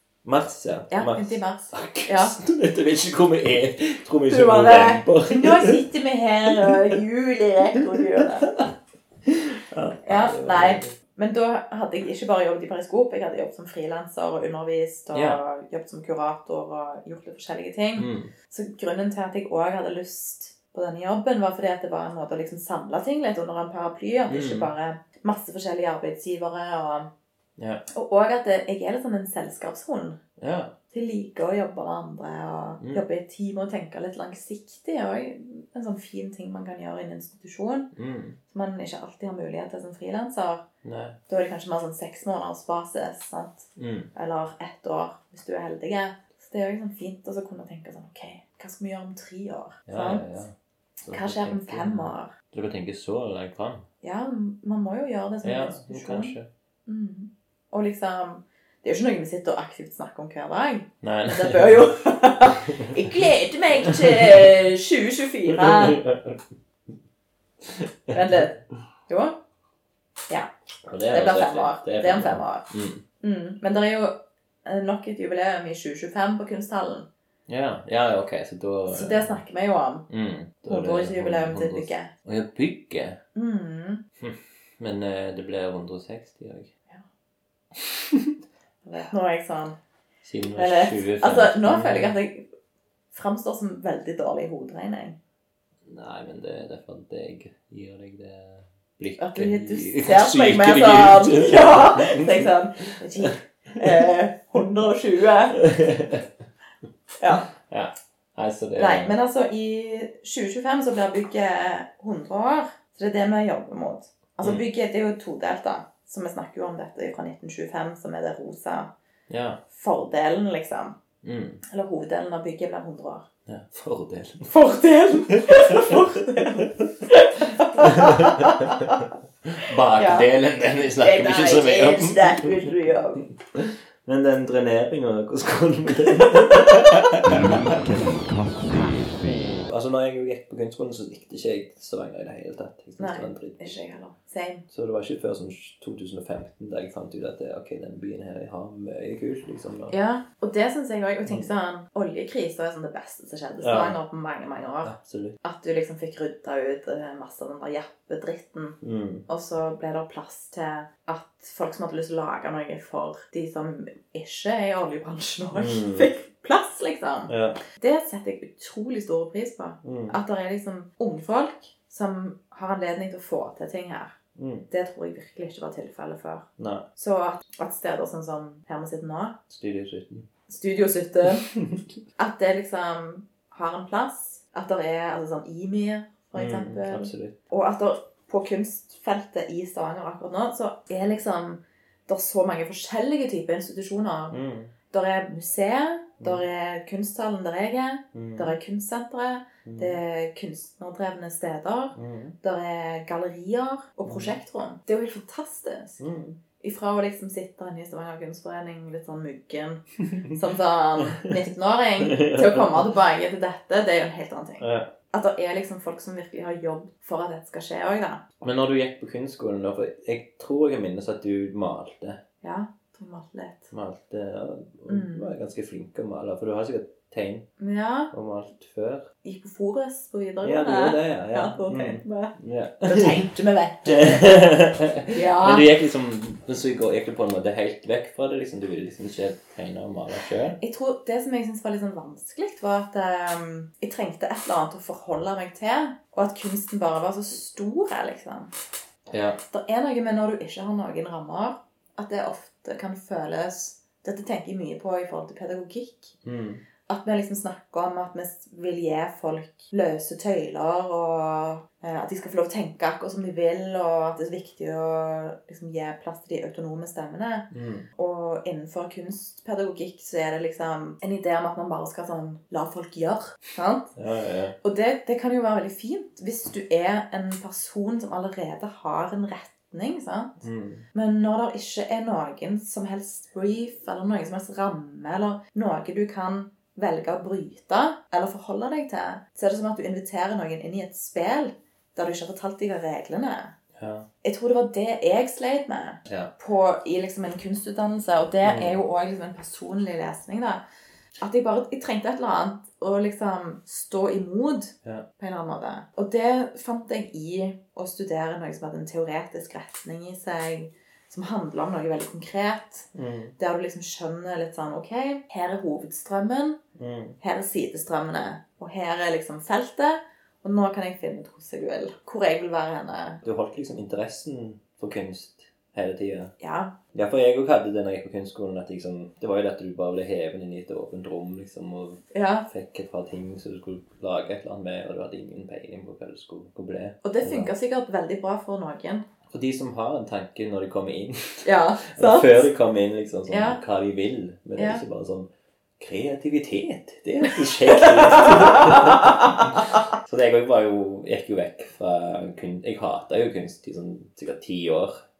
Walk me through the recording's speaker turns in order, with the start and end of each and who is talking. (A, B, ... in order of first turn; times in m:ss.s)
0:00.2-0:05.8 A
0:00.9-0:02.3 B
0:04.3-0:08.6 B
0:06.5-0:06.9 A
0:08.2-0:08.6 A
0:09.3-0:10.9 A
0:10.0-0:27.1 B
0:15.1-0:15.4 A
0:18.0-0:18.3 A
0:24.3-0:24.7 A
0:27.6-0:27.8 A
0:27.9-0:30.2 B
0:30.4-0:30.7 A
0:30.9-0:37.9 B
0:37.9-0:38.4 A
0:38.5-0:40.6 B
0:40.8-0:41.2 A
0:41.3-0:50.3 B
0:43.8-0:44.1 A
0:49.9-0:50.5 A
0:51.0-0:53.8 A
0:51.1-0:52.3 B
0:54.0-0:56.3 B
0:55.4-0:56.5 A
0:56.8-1:06.0 B
1:01.0-1:01.8 A
1:05.5-1:06.4 A
1:08.1-1:09.4 B
1:10.8-1:13.0 A
1:11.1-1:12.7 B
1:13.2-1:17.1 B
1:17.5-1:19.4 A
1:18.9-1:20.0 B
1:20.1-1:23.2 A
1:20.7-1:22.1 B
1:23.3-1:24.0 B
1:24.2-1:26.7 A
1:28.8-1:29.8 B
1:30.2-1:32.2 A
1:30.5-1:32.4 B
1:33.1-1:35.2 B
1:35.9-1:42.5 A
1:39.2-1:45.6 B
1:45.5-1:46.3 A
1:47.2-1:47.5 B
1:47.6-1:49.2 A
1:48.8-1:58.9 B
1:59.3-1:59.6 A
1:59.7-2:01.0 B
2:01.2-2:01.6 A
2:01.7-2:03.3 B
2:03.5-2:04.5 A
2:04.5-2:09.1 B
2:05.3-2:06.9 A
2:07.8-2:12.7 A
2:10.0-2:10.3 B
2:11.0-2:13.2 B
2:13.5-2:17.8 A
2:17.2-2:19.6 C
2:19.7-2:23.8 A
2:23.0-2:24.6 B
2:24.7-2:29.9 A
2:29.9-2:54.2 B
2:33.6-2:34.0 A
2:34.8-2:35.4 A
2:38.8-2:39.2 A
2:45.5-2:46.1 A
2:47.3-2:47.6 A
2:49.8-2:50.2 A
2:54.4-2:54.7 A
2:54.7-2:59.4 B
2:56.6-2:56.8 A
2:59.5-3:00.2 A
3:00.5-3:01.5 B
3:01.6-3:01.8 A
3:02.2-3:14.4 B
3:06.3-3:07.4 A
3:14.3-3:14.7 A
3:14.9-3:26.0 B
3:18.1-3:18.6 A
3:19.6-3:20.0 A
3:21.9-3:22.4 A
3:24.1-3:24.4 A
3:26.0-3:26.4 A
3:26.6-3:38.2 B
3:32.0-3:32.8 A
3:34.6-3:34.9 A
3:38.4-3:42.2 A
3:42.4-3:43.7 B
3:43.7-3:47.5 A
3:44.9-3:45.3 B
3:47.6-3:48.1 B
3:48.1-3:49.1 A
3:49.2-3:54.4 B
3:50.4-3:53.3 A
3:53.8-4:00.6 A
3:55.1-3:55.7 B
4:00.6-4:08.5 B
4:09.1-4:09.4 A
4:09.4-4:16.2 B
4:16.2-4:16.6 A
4:16.8-4:33.9 B
4:27.5-4:27.9 A
4:34.0-4:34.5 A
4:34.6-4:40.4 B
4:40.4-4:40.8 A
4:40.9-4:53.5 B
4:53.8-4:54.1 A
4:54.2-5:00.6 B
4:58.4-4:58.8 A
5:01.2-5:16.6 B
5:12.9-5:13.3 A
5:16.8-5:17.2 A
5:17.2-5:23.2 B
5:23.2-5:26.3 A
5:26.4-5:26.8 B
5:26.9-5:37.5 A
5:32.1-5:32.5 B
5:37.0-5:39.0 B
5:39.3-5:45.3 A
5:41.4-5:42.5 B
5:43.3-5:43.6 B
5:44.6-5:44.8 B
5:45.8-5:55.0 A
5:47.7-5:49.4 B